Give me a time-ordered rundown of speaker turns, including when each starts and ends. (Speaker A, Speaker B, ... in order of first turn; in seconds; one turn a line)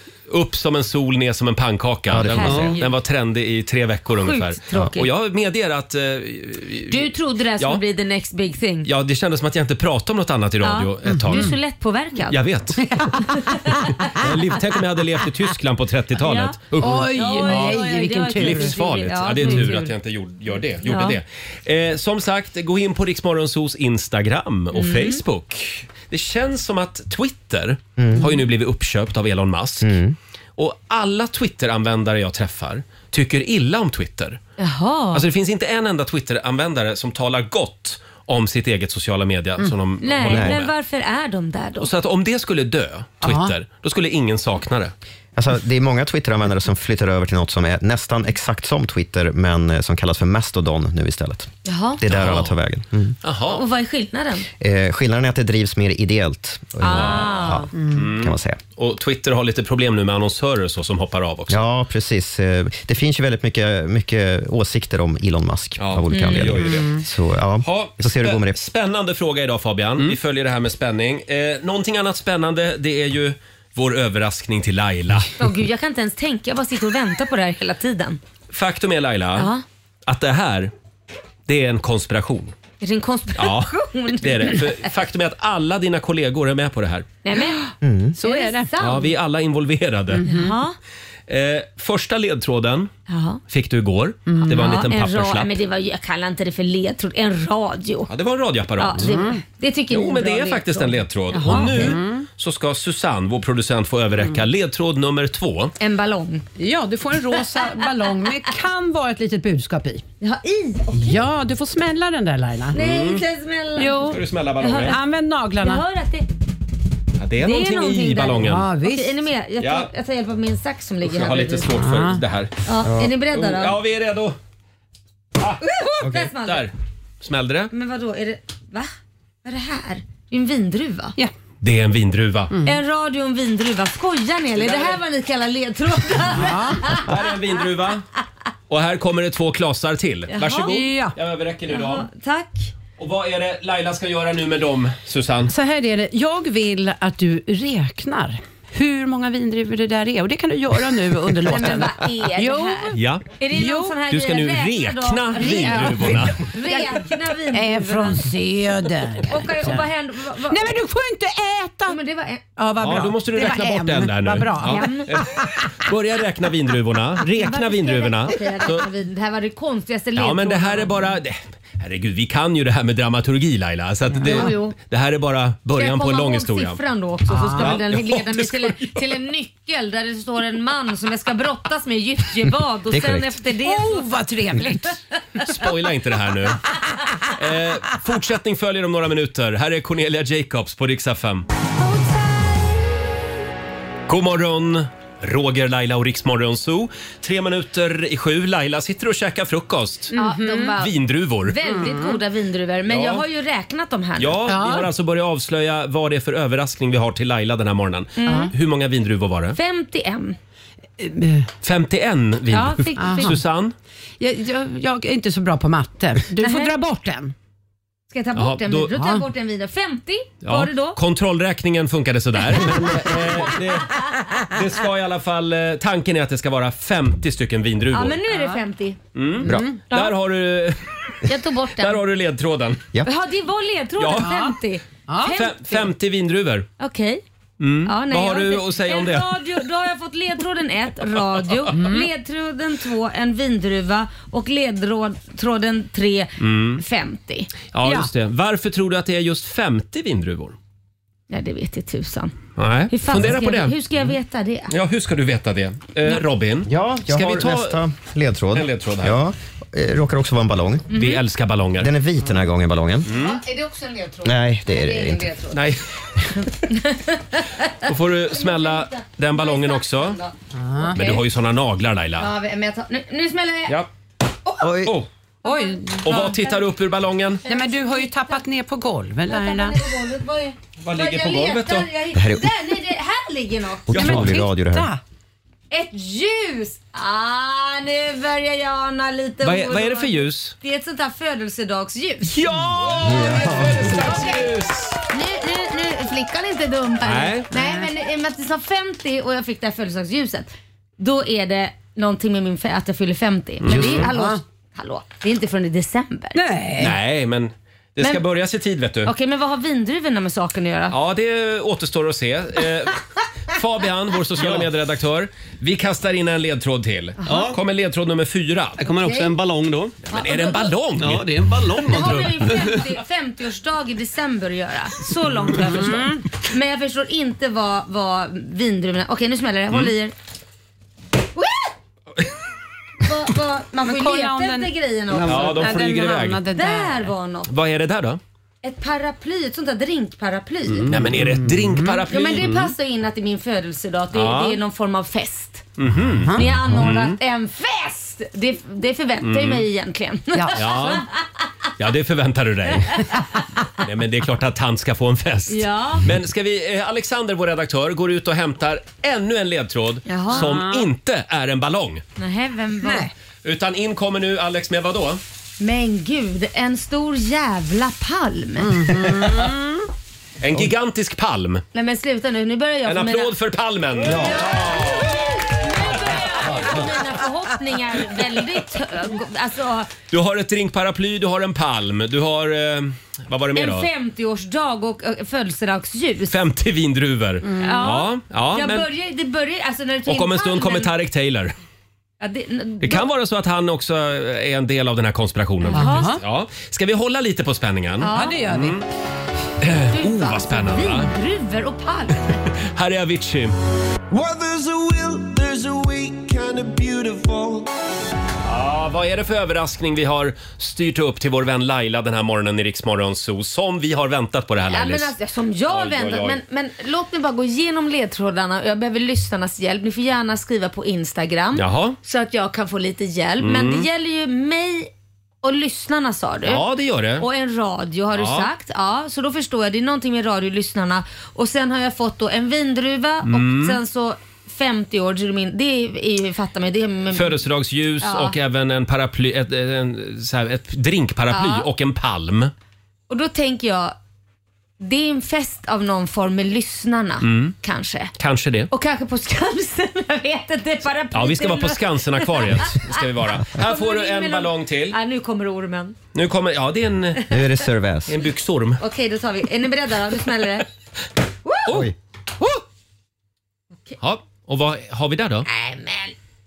Speaker A: 0.3-7.8
Speaker B: 2.1-2.8
Speaker C: 2.2-3.0
Speaker D: 2.4-2.7
Speaker C: 4.2-5.1
Speaker C: 6.9-8.9
Speaker A: 8.8-11.5
Speaker C: 10.6-12.4
Speaker E: 11.1-11.5
Speaker A: 12.3-12.8
Speaker C: 13.2-14.1
Speaker A: 14.0-29.9
Speaker C: 16.2-19.9
Speaker E: 16.8-18.8
Speaker E: 19.4-19.8
Speaker C: 20.9-21.2
Speaker C: 24.7-25.2
Speaker B: 28.0-28.3
Speaker B: 29.8-30.2
Speaker A: 30.6-34.4
Speaker C: 34.6-35.2
Speaker A: 35.1-40.7
Speaker C: 40.0-41.9
Speaker B: 40.3-40.6
Speaker A: 41.8-44.9
Speaker E: 43.2-43.5
Speaker B: 45.4-53.2
Speaker C: 51.6-52.0
Speaker A: 52.1-52.6
Speaker A: 53.2-53.6
Speaker C: 53.5-54.5
Speaker B: 54.6-58.6
Speaker C: 56.8-57.7
Speaker A: 56.9-57.2
Speaker E: 57.8-58.0
Speaker A: 57.9-61.6
Speaker B: 61.5-68.6
Speaker A: 65.8-67.0
Speaker C: 66.1-66.5
Speaker E: 66.7-67.0
Speaker A: 67.6-75.3
Speaker C: 75.4-78.2
Speaker A: 78.5-79.5
Speaker C: 79.4-79.6
Speaker A: 80.1-80.7
Speaker A: 81.5-82.5
Speaker C: 82.8-84.9
Speaker A: 83.4-87.1
Speaker C: 87.2-87.6
Speaker E: 87.4-88.7
Speaker B: 87.8-88.1
Speaker C: 88.2-89.1
Speaker A: 88.8-90.3
Speaker E: 90.1-90.6
Speaker C: 90.3-90.8
Speaker A: 91.3-92.9
Speaker C: 93.1-93.4
Speaker A: 93.5-95.6
Speaker E: 94.3-94.8
Speaker C: 94.5-98.1
Speaker A: 98.1-99.2
Speaker C: 98.8-102.0
Speaker E: 99.0-99.4
Speaker A: 99.9-105.7
Speaker E: 101.5-102.3
Speaker C: 105.8-106.5
Speaker E: 106.6-110.0
Speaker C: 110.2-111.2
Speaker E: 110.9-112.8
Speaker C: 112.7-115.0
Speaker A: 112.8-113.2
Speaker E: 113.8-114.2
Speaker A: 114.1-115.0
Speaker E: 114.9-115.8
Speaker C: 115.6-116.3
Speaker A: 117.2-118.7
Speaker C: 117.4-121.7
Speaker E: 118.4-119.2
Speaker A: 119.6-119.9
Speaker A: 121.0-122.5
Speaker E: 121.8-122.2
Speaker C: 122.7-123.8
Speaker B: 122.8-123.1
Speaker A: 123.3-124.4
Speaker C: 125.6-126.7
Speaker B: 126.0-126.3
Speaker A: 126.2-127.7
Speaker C: 127.7-128.9
Speaker C: 129.4-131.2
Speaker A: 131.6-132.5
Speaker E: 132.5-132.8
Speaker C: 132.6-137.1
Speaker A: 134.6-135.0
Speaker E: 136.3-137.0
Speaker A: 136.9-138.1
Speaker A: 138.7-142.1
Speaker C: 140.3-140.9
Speaker E: 140.7-141.1
Speaker C: 141.7-142.7
Speaker A: 143.0-145.5
Speaker E: 145.5-153.0
Speaker C: 151.5-158.2
Speaker A: 152.9-153.3
Speaker E: 153.5-154.0
Speaker A: 154.1-156.4
Speaker E: 155.4-159.9
Speaker C: 159.3-160.7
Speaker E: 160.5-162.0
Speaker C: 161.9-162.4
Speaker E: 162.6-165.7
Speaker A: 162.8-168.9
Speaker C: 164.6-165.2
Speaker C: 167.4-171.0
Speaker A: 170.2-176.8
Speaker E: 174.2-174.6
Speaker C: 174.2-174.8
Speaker C: 175.8-184.1
Speaker E: 177.3-177.8
Speaker A: 177.6-179.0
Speaker B: 182.9-183.3
Speaker E: 183.6-185.0
Speaker A: 185.4-186.6
Speaker A: 187.3-191.5
Speaker A: 194.1-200.1
Speaker E: 200.1-200.8
Speaker C: 200.1-200.9
Speaker A: 200.8-201.6
Speaker C: 201.5-204.6
Speaker E: 201.7-202.2
Speaker A: 202.9-203.2
Speaker A: 204.2-209.6
Speaker E: 204.5-204.9
Speaker C: 208.2-208.5
Speaker E: 208.2-208.5
Speaker C: 209.6-210.4
Speaker E: 211.0-211.5
Speaker A: 211.6-213.7
Speaker C: 212.5-213.4
Speaker E: 213.0-213.4
Speaker E: 214.2-217.3
Speaker C: 216.4-216.8
Speaker C: 218.1-221.0
Speaker A: 218.3-218.9
Speaker E: 218.9-219.3
Speaker A: 220.4-228.2
Speaker C: 227.9-229.0
Speaker E: 228.3-228.6
Speaker A: 229.2-231.2
Speaker E: 229.4-230.1
Speaker C: 231.2-232.0
Speaker A: 231.8-232.8
Speaker C: 233.0-235.9
Speaker A: 234.0-234.4
Speaker E: 234.2-234.5
Speaker E: 235.1-235.4
Speaker A: 235.3-236.7
Speaker C: 236.8-237.2
Speaker A: 237.6-239.6
Speaker C: 237.9-247.5
Speaker E: 241.7-242.1
Speaker A: 246.4-246.8
Speaker A: 247.7-250.6
Speaker C: 251.3-252.4
Speaker A: 252.6-253.8
Speaker C: 252.9-254.7
Speaker A: 254.7-257.8
Speaker B: 256.7-260.9
Speaker A: 258.5-259.2
Speaker C: 260.9-261.2
Speaker A: 260.9-261.9
Speaker B: 261.8-263.1
Speaker A: 263.1-263.4
Speaker C: 263.1-265.6
Speaker B: 264.2-265.3
Speaker A: 265.5-265.8
Speaker C: 266.4-271.2
Speaker A: 267.8-270.2
Speaker E: 270.6-271.0
Speaker A: 270.9-272.3
Speaker C: 272.2-273.8
Speaker B: 274.6-275.0
Speaker E: 275.4-276.4
Speaker C: 275.4-276.6
Speaker A: 276.0-277.4
Speaker C: 277.4-278.4
Speaker E: 277.5-279.9
Speaker C: 279.3-284.1
Speaker A: 280.8-281.9
Speaker B: 282.1-282.5
Speaker B: 283.9-284.9
Speaker A: 283.9-284.4
Speaker E: 283.9-285.0
Speaker C: 285.7-292.4
Speaker A: 289.4-290.6
Speaker A: 292.3-295.0
Speaker C: 293.0-294.5
Speaker B: 293.0-293.9
Speaker C: 295.1-306.5
Speaker A: 297.0-297.5
Speaker E: 297.5-297.9
Speaker A: 303.6-304.1
Speaker E: 303.7-304.4
Speaker E: 306.3-307.0
Speaker A: 306.8-309.1
Speaker C: 309.1-311.0
Speaker A: 310.9-318.9
Speaker D: 314.4-314.7
Speaker D: 318.8-320.0
Speaker C: 319.0-319.3
Speaker A: 320.1-321.3
Speaker C: 320.1-320.7
Speaker D: 321.0-322.8
Speaker C: 321.8-330.1
Speaker E: 325.7-326.2
Speaker C: 331.4-331.6
Speaker C: 333.0-337.5
Speaker E: 333.7-337.1
Speaker A: 335.2-336.5
Speaker A: 337.5-338.2
Speaker C: 338.6-340.9
Speaker A: 340.9-342.7
Speaker E: 341.1-342.1
Speaker C: 342.1-345.6
Speaker A: 344.1-344.6
Speaker A: 345.8-347.2
Speaker E: 346.2-346.9
Speaker C: 346.4-351.1
Speaker A: 349.2-349.6
Speaker E: 350.3-350.6
Speaker A: 350.5-351.0
Speaker A: 351.8-353.1
Speaker A: 353.8-362.0
Speaker C: 355.5-356.1
Speaker C: 360.1-360.6
Speaker E: 360.3-360.9
Speaker C: 362.2-363.1
Speaker E: 362.8-363.1
Speaker A: 363.4-365.2
Speaker C: 365.6-369.2
Speaker E: 368.6-369.7
Speaker A: 370.4-371.6
Speaker C: 371.7-373.3
Speaker A: 372.9-375.2
Speaker C: 374.1-379.9
Speaker A: 376.5-376.9
Speaker A: 380.1-383.9
Speaker C: 383.5-386.4
Speaker A: 386.3-388.9
Speaker E: 387.5-387.9
Speaker C: 387.6-390.9
Speaker A: 390.1-391.5
Speaker C: 392.2-393.1
Speaker A: 392.8-398.8
Speaker C: 395.7-396.2
Speaker E: 395.7-396.2
Speaker C: 398.0-398.4
Speaker E: 398.1-398.8
Speaker A: 399.6-401.1
Speaker C: 399.9-402.4
Speaker A: 402.6-403.6
Speaker F: 404.1-407.7
Speaker A: 408.4-415.1
Speaker C: 414.7-424.9
Speaker A: 415.7-416.4
Speaker A: 421.5-422.0
Speaker A: 423.4-423.9
Speaker C: 425.4-426.6
Speaker A: 426.4-427.3
Speaker C: 427.2-437.4
Speaker A: 428.1-428.5
Speaker A: 433.2-433.8
Speaker A: 437.1-442.5
Speaker C: 438.0-438.4
Speaker C: 441.3-441.7
Speaker C: 443.1-444.0
Speaker C: 444.8-448.1
Speaker A: 447.2-447.6
Speaker A: 448.2-448.7
Speaker C: 448.7-456.0
Speaker A: 451.1-455.0
Speaker A: 456.1-457.2
Speaker B: 457.3-458.2
Speaker A: 458.1-458.8
Speaker C: 458.8-460.7
Speaker B: 461.7-461.9
Speaker A: 464.0-465.5
Speaker C: 465.4-466.1